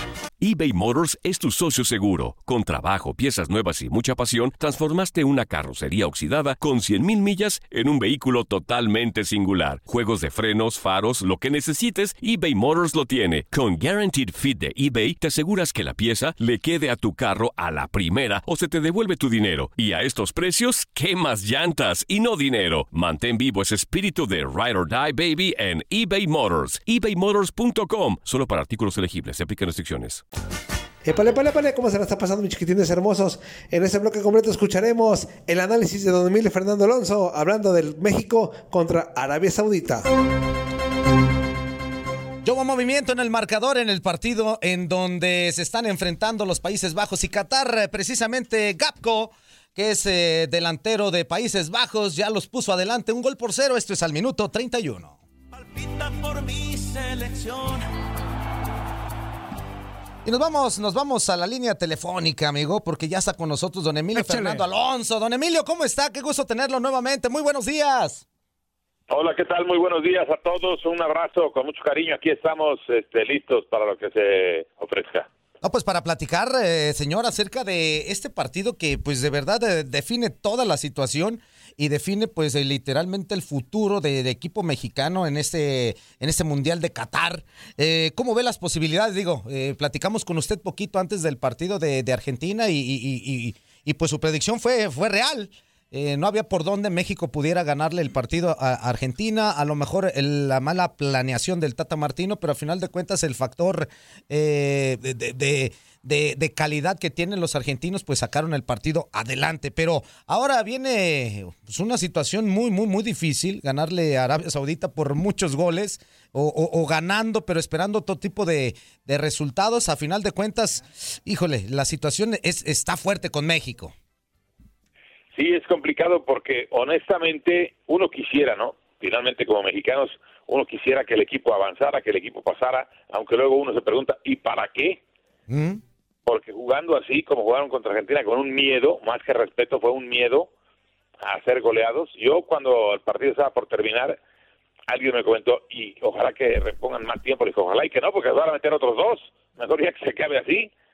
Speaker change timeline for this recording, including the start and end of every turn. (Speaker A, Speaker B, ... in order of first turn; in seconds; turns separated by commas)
Speaker A: 0.4-30.2, Speaker B: 31.0-40.0, Speaker C: 42.4-55.2, Speaker D: 55.5-57.9, Speaker C: 60.2-68.2, Speaker B: 64.1-64.6, Speaker E: 69.1-75.3, Speaker C: 75.6-123.9, Speaker E: 125.3-135.0, Speaker C: 135.5-135.8, Speaker E: 136.2-140.5, Speaker E: 141.2-144.2, Speaker E: 144.9-150.7